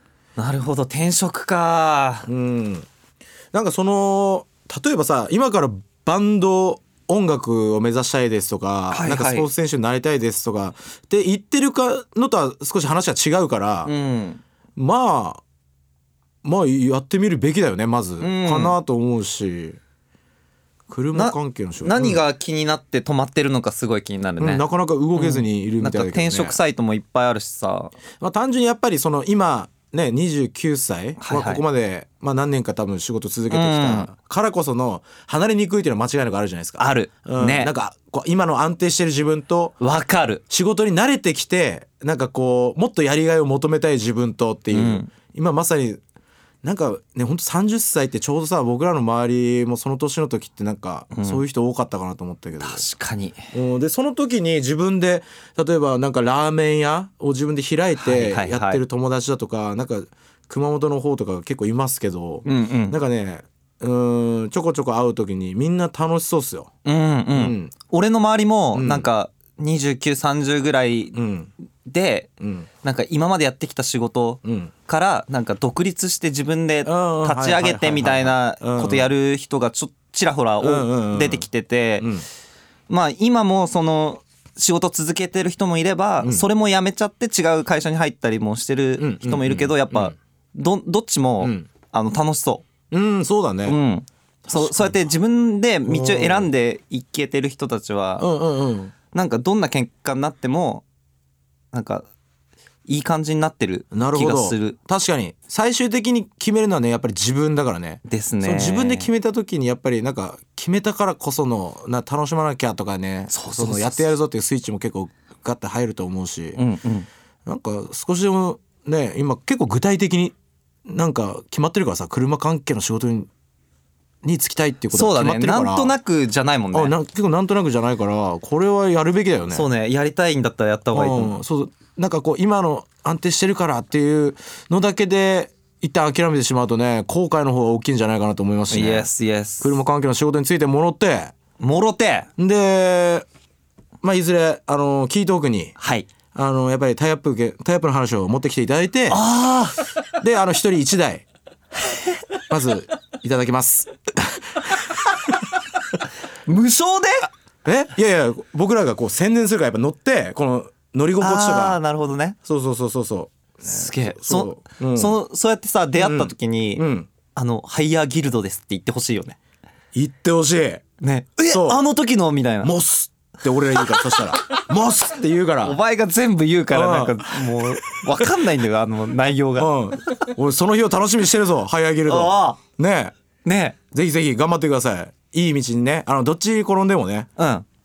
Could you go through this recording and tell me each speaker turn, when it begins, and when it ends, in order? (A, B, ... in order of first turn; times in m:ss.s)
0:00.4-0:02.3 A
0:02.3-0:02.9 B
0:03.5-0:13.9 B
0:08.9-0:09.5 A
0:13.8-0:14.4 A
0:14.8-0:15.4 B
0:16.4-0:19.8 B
0:18.2-0:18.8 A
0:20.9-0:22.2 B
0:21.1-0:24.6 A
0:24.4-0:26.6 B
0:25.1-0:27.9 A
0:28.2-0:39.8 B
0:31.2-0:31.6 A
0:33.5-0:34.1 A
0:36.8-0:37.7 A
0:39.8-0:40.4 A
0:40.5-0:46.0 B
0:44.7-0:45.1 A
0:46.6-0:52.8 B
0:51.1-0:51.4 A
0:52.6-0:53.4 A
0:53.5-1:06.7 B
0:58.0-0:58.8 A
1:02.4-1:03.0 A
1:06.8-1:11.2 A
1:07.3-1:07.7 B
1:08.7-1:09.1 B
1:11.1-1:11.5 B
1:11.8-1:12.3 A
1:12.4-1:12.7 B
1:12.8-1:22.1 A
1:14.4-1:14.7 B
1:16.8-1:19.1 B
1:20.6-1:21.4 B
1:22.0-1:22.2 B
1:22.9-1:32.6 A
1:29.0-1:30.1 B
1:31.4-1:31.7 B
1:32.9-1:33.8 B
1:33.6-1:38.3 A
1:34.4-1:35.0 B
1:35.8-1:36.5 B
1:38.2-1:38.9 B
1:39.1-1:40.8 A
1:41.7-1:42.0 A
1:42.9-1:44.8 A
1:43.9-1:56.6 B
1:48.1-1:49.1 A
1:53.3-1:54.1 A
1:56.6-1:57.1 A
1:57.4-2:00.3 B
2:00.9-2:03.3 B
2:04.2-2:05.9 B
2:04.9-2:06.9 A
2:06.7-2:09.7 B
2:09.5-2:11.4 A
2:10.9-2:19.1 B
2:18.7-2:19.8 A
2:19.6-2:21.3 B
2:21.6-2:22.3 A
2:22.4-2:23.2 B
2:24.0-2:25.7 B
2:25.8-2:26.1 A
2:26.3-2:29.2 B
2:29.1-2:29.8 A
2:30.2-2:31.2 B
2:32.5-2:34.6 B
2:36.4-2:37.3 A
2:37.6-2:41.8 B
2:41.2-2:42.4 A
2:42.4-2:45.2 B
2:43.6-2:49.4 A
2:46.0-2:47.1 B
2:49.9-2:50.8 B
2:51.0-2:52.7 A
2:51.5-2:51.8 B
2:52.6-2:55.8 B
2:55.6-3:00.1 A
2:56.7-2:58.4 B
2:59.6-3:03.1 B
3:02.1-3:02.6 A
3:03.4-3:03.8 A
3:03.9-3:07.3 B
3:07.4-3:07.6 A